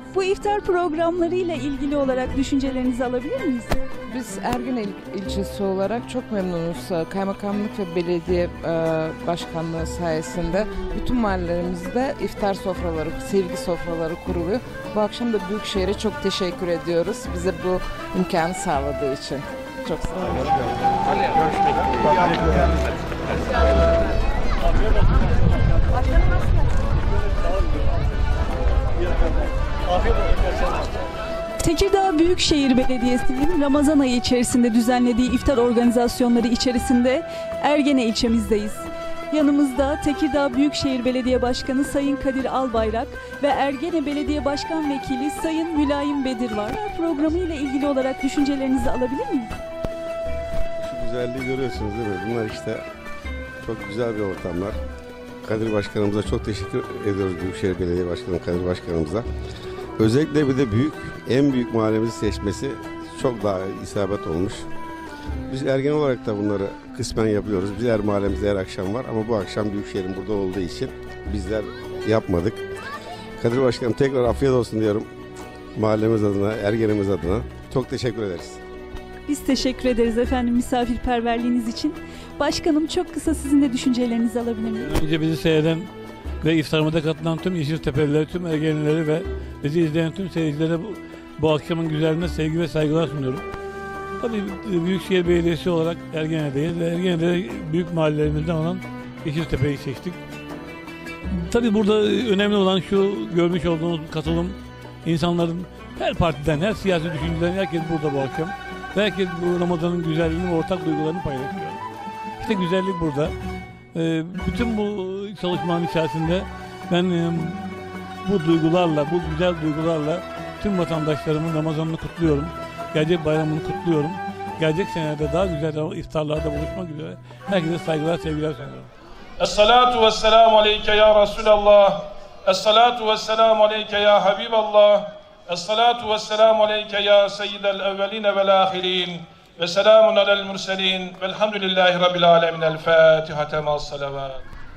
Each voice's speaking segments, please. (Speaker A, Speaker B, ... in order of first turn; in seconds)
Speaker A: 0.1-3.8, 31.6-49.5, 79.3-85.0
Speaker B: 4.1-20.7, 22.3-22.7
Speaker C: 50.8-52.8, 53.6-54.8, 55.4-59.2, 60.0-64.7, 65.5-72.6, 73.4-75.1, 75.7-78.6
Speaker D: 84.8-85.9, 86.4-93.5, 94.2-100.2, 101.3-111.8, 112.4-113.3, 113.9-128.9
Speaker E: 129.4-144.4